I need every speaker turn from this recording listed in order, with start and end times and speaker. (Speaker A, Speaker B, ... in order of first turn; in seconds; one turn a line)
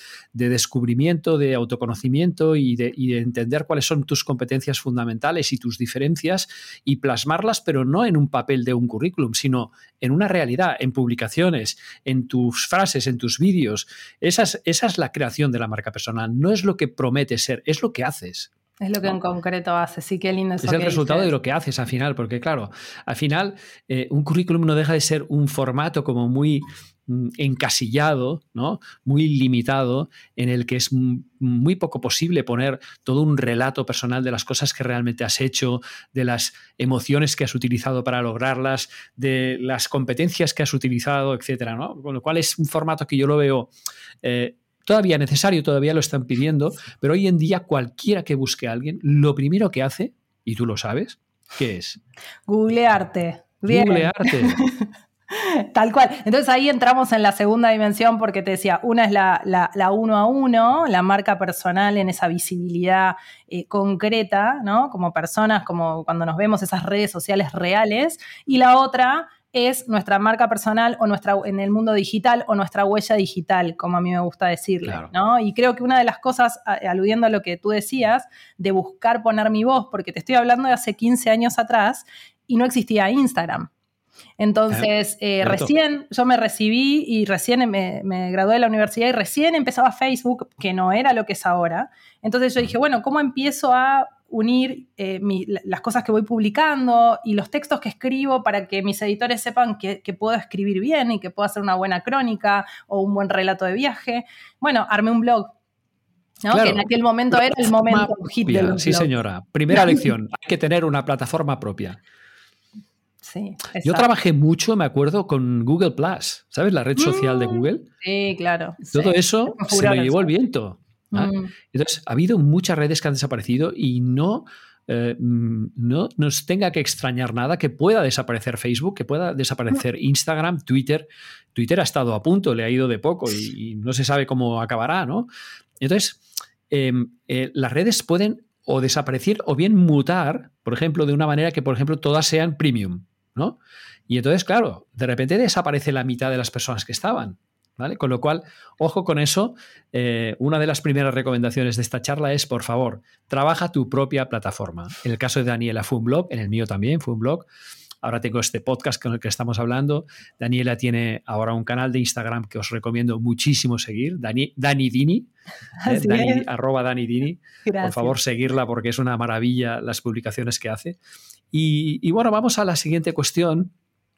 Speaker A: 0.3-18.5
Speaker B: 18.8-21.3
Speaker A: 20.6-43.7
Speaker A: 44.2-52.0
Speaker B: 52.5-83.7
Speaker A: 53.7-54.6
Speaker A: 74.8-75.1
Speaker B: 84.4-105.5
Speaker A: 85.4-85.7
Speaker B: 106.4-109.2
Speaker A: 106.5-112.0
Speaker B: 109.7-110.1
Speaker B: 113.2-114.1
Speaker A: 113.8-117.9
Speaker B: 117.0-120.3
Speaker A: 118.9-135.3
Speaker B: 121.1-121.5
Speaker A: 135.8-143.6
Speaker A: 144.1-157.5
Speaker A: 158.0-165.3
Speaker B: 165.8-166.5
Speaker A: 165.9-171.0
Speaker B: 167.7-168.2
Speaker A: 171.5-173.7